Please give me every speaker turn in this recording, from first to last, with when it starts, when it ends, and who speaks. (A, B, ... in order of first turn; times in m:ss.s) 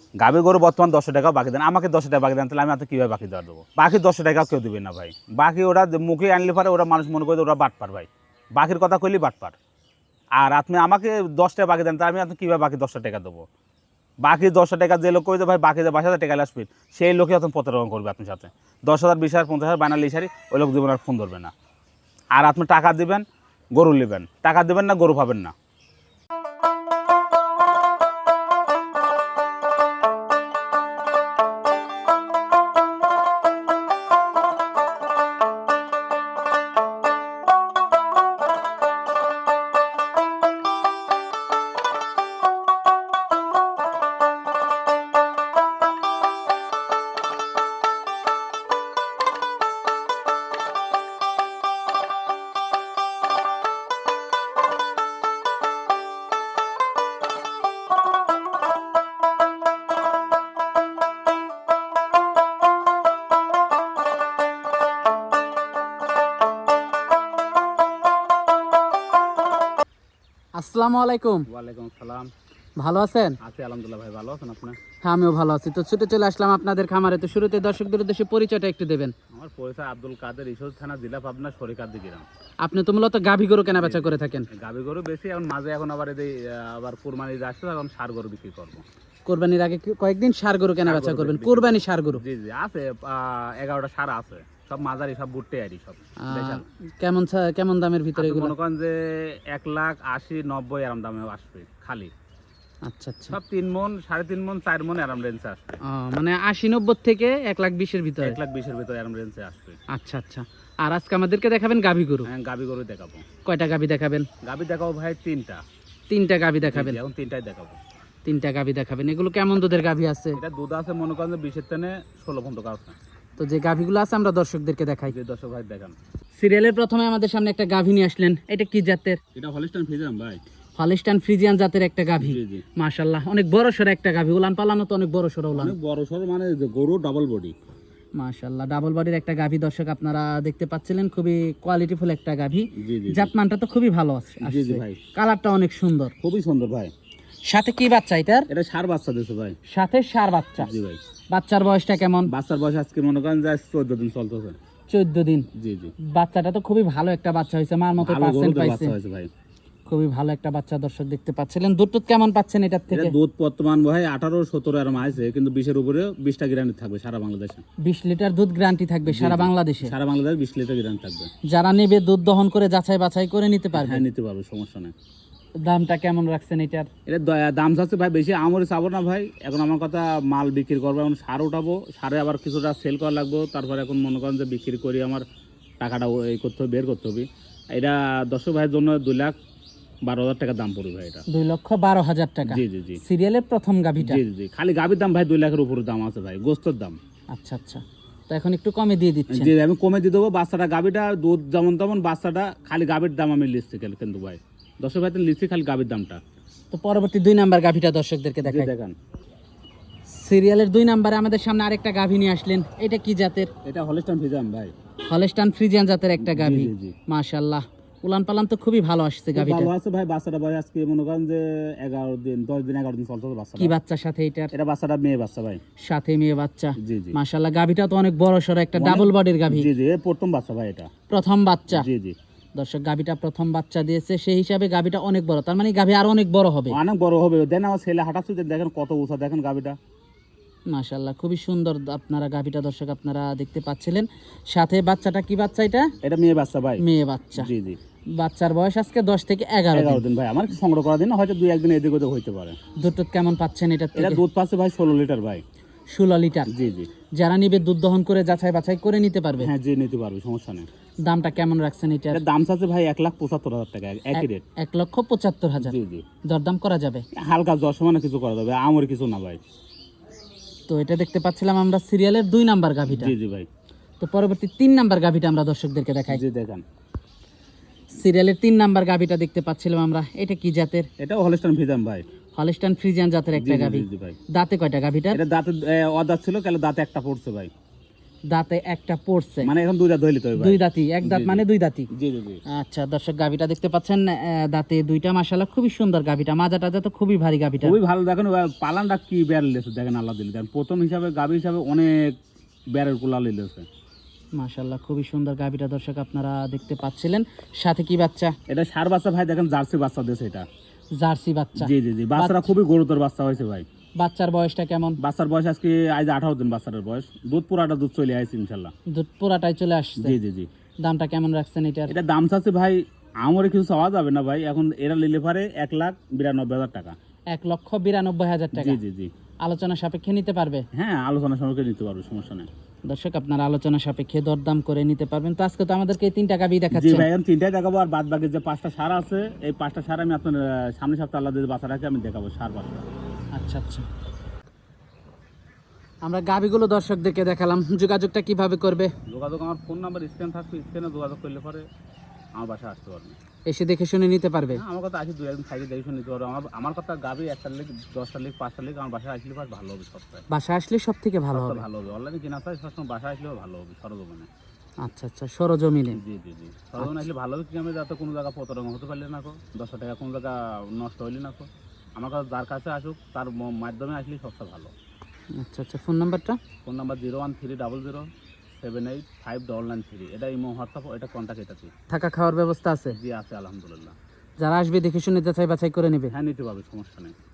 0:00.2-0:09.6 A
0:10.4-0:13.5 A
0:14.2-0:21.5 A
0:22.3-0:23.2 A
0:23.8-0:25.5 A
1:10.6-1:11.4 B
1:11.5-1:12.3 A
1:12.8-1:13.4 B
1:13.4-1:14.8 A
1:15.0-1:19.1 B
1:19.3-1:22.2 A
1:22.6-1:24.5 B
1:23.7-1:28.8 A
1:29.2-1:32.2 B
1:30.8-1:36.7 A
1:36.2-1:38.5 B
1:38.2-1:42.1 A
1:42.8-1:43.4 B
1:43.3-1:45.8 A
1:45.8-1:48.4 B
1:48.2-1:49.8 A
1:49.9-1:52.3 B
1:52.2-1:53.3 A
1:53.4-1:54.3 B
1:54.4-1:55.6 A
1:56.1-1:57.0 B
1:56.6-1:57.8 A
1:58.2-2:00.4 B
2:00.3-2:03.0 A
2:03.4-2:05.1 B
2:05.1-2:06.0 A
2:06.4-2:09.2 B
2:09.3-2:10.4 A
2:10.8-2:15.7 B
2:12.2-2:12.6 A
2:15.5-2:17.5 A
2:18.2-2:26.1 B
2:22.7-2:23.3 A
2:24.4-2:25.0 A
2:26.2-2:26.9 A
2:27.5-2:28.5 B
2:28.5-2:29.6 A
2:29.7-2:30.7 B
2:30.6-2:31.0 A
2:31.3-2:32.3 B
2:32.3-2:34.6 A
2:34.9-2:35.5 B
2:35.5-2:35.9 A
2:36.0-2:38.9 B
2:38.0-2:39.3 A
2:39.9-2:43.1 B
2:42.9-2:47.6 A
2:47.8-2:49.9 B
2:49.0-2:51.3 A
2:51.5-2:54.0 B
2:53.7-2:54.9 A
2:55.6-2:56.9 B
2:57.1-3:05.2 A
3:05.8-3:09.3 A
3:10.1-3:11.2 A
3:11.3-3:14.2 B
3:12.4-3:13.0 A
3:14.0-3:17.0 A
3:17.3-3:19.5 B
3:19.3-3:26.2 A
3:26.7-3:28.7 B
3:28.4-3:28.9 A
3:30.1-3:33.5 B
3:33.6-3:34.7 A
3:35.0-3:39.7 B
3:36.2-3:36.9 A
3:39.3-3:43.7 A
3:43.6-3:44.5 B
3:44.5-3:45.6 A
3:45.8-3:49.7 B
3:46.8-3:47.2 A
3:48.8-3:50.9 A
3:51.1-3:51.9 B
3:51.7-3:52.2 A
3:52.6-3:56.8 B
3:56.7-3:59.8 A
4:00.7-4:05.9 B
4:06.0-4:06.8 A
4:06.8-4:07.5 B
4:07.3-4:07.8 A
4:08.2-4:10.0 B
4:09.7-4:12.6 A
4:12.8-4:14.2 B
4:13.9-4:15.4 A
4:15.9-4:16.5 B
4:16.5-4:16.9 A
4:17.1-4:19.5 B
4:19.4-4:20.6 A
4:21.0-4:22.2 B
4:22.1-4:24.4 A
4:24.1-4:25.8 B
4:25.6-4:26.0 A
4:26.2-4:27.0 B
4:27.1-4:29.4 A
4:30.7-4:33.1 B
4:32.8-4:33.5 A
4:34.0-4:36.2 B
4:36.1-4:36.6 A
4:37.9-4:40.9 B
4:41.0-4:42.0 A
4:42.3-4:45.2 B
4:43.3-4:44.2 A
4:45.1-4:47.5 A
4:48.3-4:49.5 B
4:49.4-4:52.4 A
4:50.4-4:51.9 B
4:52.5-4:57.8 B
4:57.6-5:02.2 A
5:02.7-5:03.7 A
5:04.3-5:08.3 B
5:08.5-5:10.4 A
5:10.9-5:12.5 B
5:11.6-5:13.6 A
5:14.0-5:15.0 B
5:15.0-5:18.7 A
5:18.9-5:20.2 B
5:20.0-5:20.5 A
5:20.8-5:21.9 B
5:21.9-5:26.9 A
5:27.3-5:28.8 B
5:28.5-5:29.1 A
5:29.4-5:30.6 B
5:30.7-5:32.5 A
5:32.9-5:37.1 B
5:36.7-5:42.8 A
5:43.3-5:43.8 B
5:46.0-5:48.9 B
5:49.1-5:51.7 A
5:52.4-5:53.2 A
5:53.5-5:54.6 B
5:54.5-6:00.2 A
6:00.3-6:01.6 B
6:01.3-6:04.3 A
6:04.8-6:06.0 B
6:05.9-6:14.7 A
6:06.8-6:07.1 B
6:15.3-6:16.4 B
6:16.6-6:21.7 A
6:21.9-6:23.0 B
6:22.9-6:24.0 A
6:24.4-6:26.1 B
6:26.1-6:27.1 A